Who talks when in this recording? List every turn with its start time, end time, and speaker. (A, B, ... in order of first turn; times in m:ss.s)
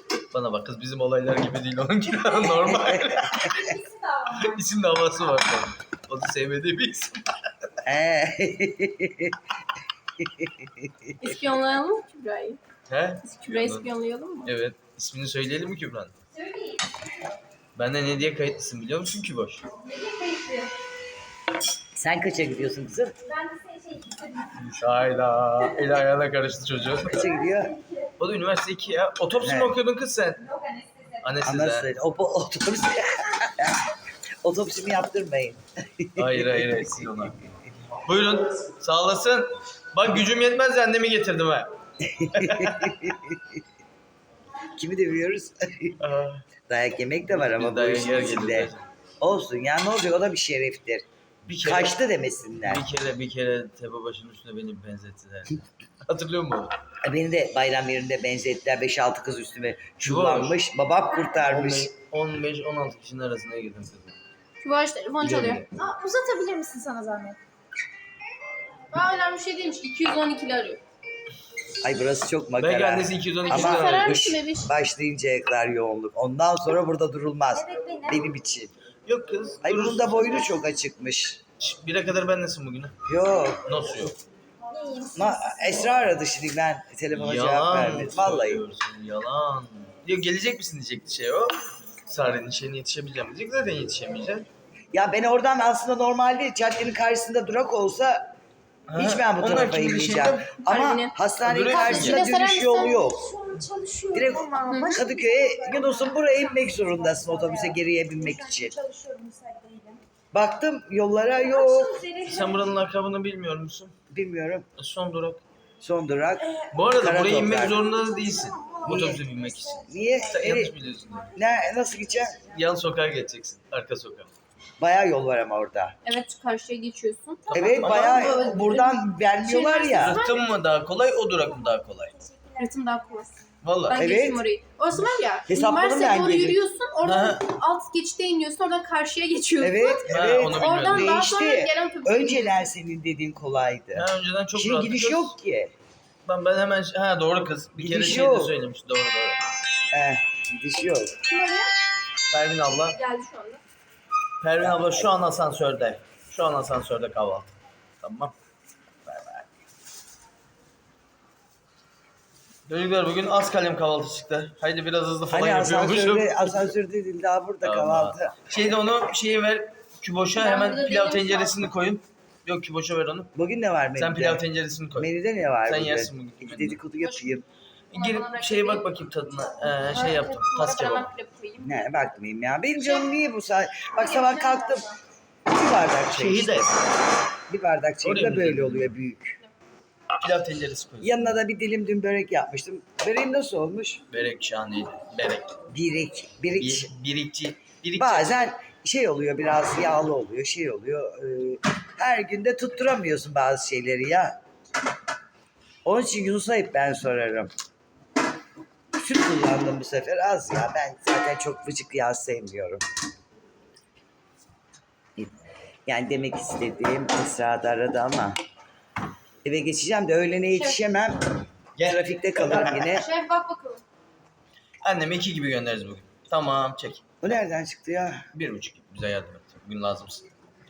0:00.3-0:07.5 A
0:02.5-0:03.8 B
0:03.8-0:04.5 C
0:07.8-0:09.4 B
0:10.2-0:11.2 B
0:11.2-0:12.6 D
0:12.9-0:13.9 A
0:13.2-0:14.5 D
0:14.4-0:16.1 A
0:16.4-0:16.8 C
0:17.7-0:19.7 A
0:19.8-0:20.7 C
0:21.9-0:23.2 B
0:23.4-0:24.5 C
0:24.6-0:27.3 A
0:27.0-0:27.8 B
0:28.2-0:30.5 A
0:29.4-0:29.8 B
0:30.5-0:31.1 C
0:31.2-0:31.9 A
0:31.4-0:37.2 B
0:36.2-0:37.4 A
0:38.0-0:41.7 A
0:42.0-0:43.6 B
0:42.3-0:42.9 A
0:44.7-0:46.0 B
0:46.0-0:46.4 A
0:46.7-0:52.9 B
0:47.3-0:48.8 A
0:51.4-0:52.0 A
0:52.6-0:56.7 A
0:57.0-1:01.9 B
1:00.0-1:00.6 A
1:01.4-1:04.2 A
1:04.6-1:05.6 D
1:05.2-1:05.7 A
1:05.8-1:07.4 C
1:08.9-1:10.8 D
1:11.8-1:18.7 B
1:12.6-1:14.3 A
1:13.4-1:14.7 D
1:17.6-1:18.1 C
1:19.0-1:20.5 A
1:19.6-1:21.4 B
1:21.6-1:22.9 A
1:23.0-1:23.7 B
1:23.6-1:24.2 A
1:24.7-1:25.4 C
1:25.1-1:28.6 B
1:27.1-1:31.6 A
1:32.1-1:34.5 A
1:34.9-1:38.3 B
1:38.9-1:40.6 A
1:39.0-1:43.4 B
1:40.6-1:41.1 D
1:41.4-1:42.2 A
1:41.7-1:43.1 D
1:43.3-1:50.0 C
1:44.1-1:48.8 B
1:44.6-1:45.0 D
1:50.3-1:52.0 B
1:51.5-1:52.5 C
1:52.2-1:53.9 A
1:54.1-1:54.7 B
1:54.8-1:55.4 A
1:55.8-1:57.8 B
1:56.7-2:01.4 A
1:58.8-2:00.7 B
2:01.3-2:02.4 B
2:02.4-2:04.3 A
2:04.8-2:06.0 B
2:06.0-2:10.4 D
2:07.5-2:08.4 A
2:07.5-2:10.2 B
2:10.0-2:12.2 A
2:12.6-2:22.7 D
2:13.6-2:14.1 A
2:13.9-2:14.4 B
2:15.5-2:16.6 B
2:17.0-2:17.4 A
2:19.6-2:25.7 B
2:20.1-2:21.1 A
2:23.9-2:25.3 A
2:26.2-2:29.4 A
2:27.8-2:28.5 B
2:29.9-2:31.2 B
2:31.3-2:31.7 D
2:32.3-2:33.0 A
2:32.9-2:33.6 D
2:34.4-2:37.5 A
2:34.6-2:35.1 B
2:38.0-2:38.3 A
2:39.1-2:39.4 A
2:42.7-2:46.7 A
2:45.3-2:48.5 B
2:47.6-2:53.3 A
2:50.4-2:51.6 D
2:53.3-2:54.4 B
2:54.0-2:55.1 A
2:54.9-2:57.4 B
2:55.6-2:56.8 A
2:57.0-2:57.4 D
2:57.9-3:01.1 A
2:57.9-2:58.9 D
2:59.6-3:02.0 D
3:01.6-3:04.9 B
3:02.8-3:03.1 D
3:03.9-3:05.0 D
3:05.5-3:06.7 B
3:06.1-3:06.8 A
3:07.5-3:09.4 B
3:08.0-3:08.9 A
3:10.2-3:11.3 A
3:11.0-3:14.0 B
3:14.1-3:15.6 A
3:15.7-3:16.9 B
3:16.6-3:18.4 A
3:18.0-3:24.4 B
3:25.8-3:27.5 B
3:29.0-3:32.8 B
3:35.2-3:38.4 B
3:39.4-3:43.1 B
3:40.5-3:40.8 D
3:41.8-3:42.9 A
3:42.7-3:43.8 D
3:44.8-3:47.4 A
3:47.2-3:48.2 B
3:48.3-3:50.2 A